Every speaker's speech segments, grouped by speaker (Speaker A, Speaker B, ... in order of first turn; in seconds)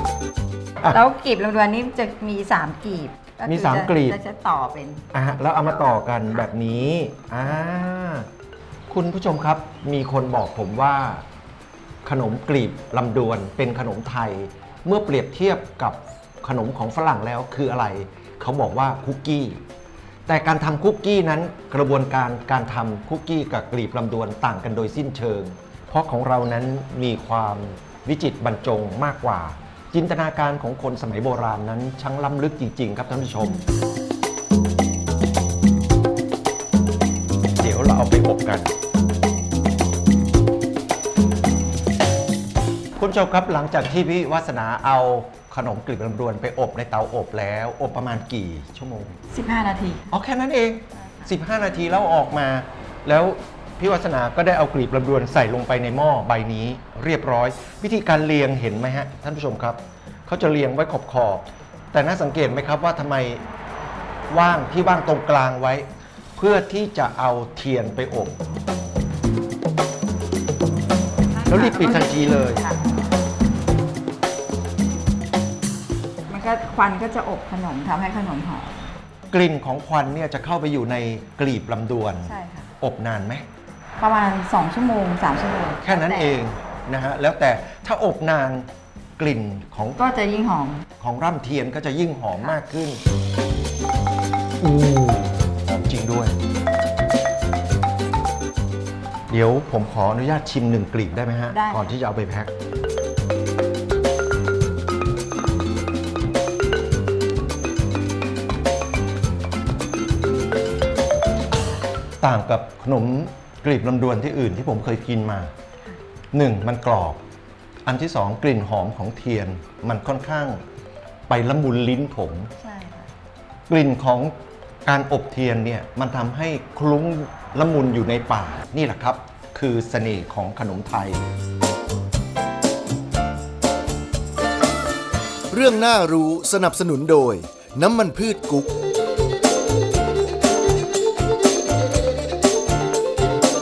Speaker A: 0.8-5.0, 49.3-50.1, 51.0-51.3, 71.3-72.8, 76.3-78.9, 82.2-82.7, 84.0-86.4, 90.0-90.9, 101.5-101.9, 122.6-123.1
Speaker B: 3.5-4.2, 5.1-8.3, 8.9-11.2, 12.0-19.6, 20.3-33.6, 37.6-38.7, 43.0-49.2, 50.1-63.4, 64.3-68.4, 71.5-72.6, 79.3-83.5, 85.8-90.0, 91.0-93.0, 94.6-96.4, 99.3-102.5, 112.2-115.5, 116.3-117.2, 117.9-120.6, 121.3-122.5, 123.7-131.2
Speaker C: 135.5-138.7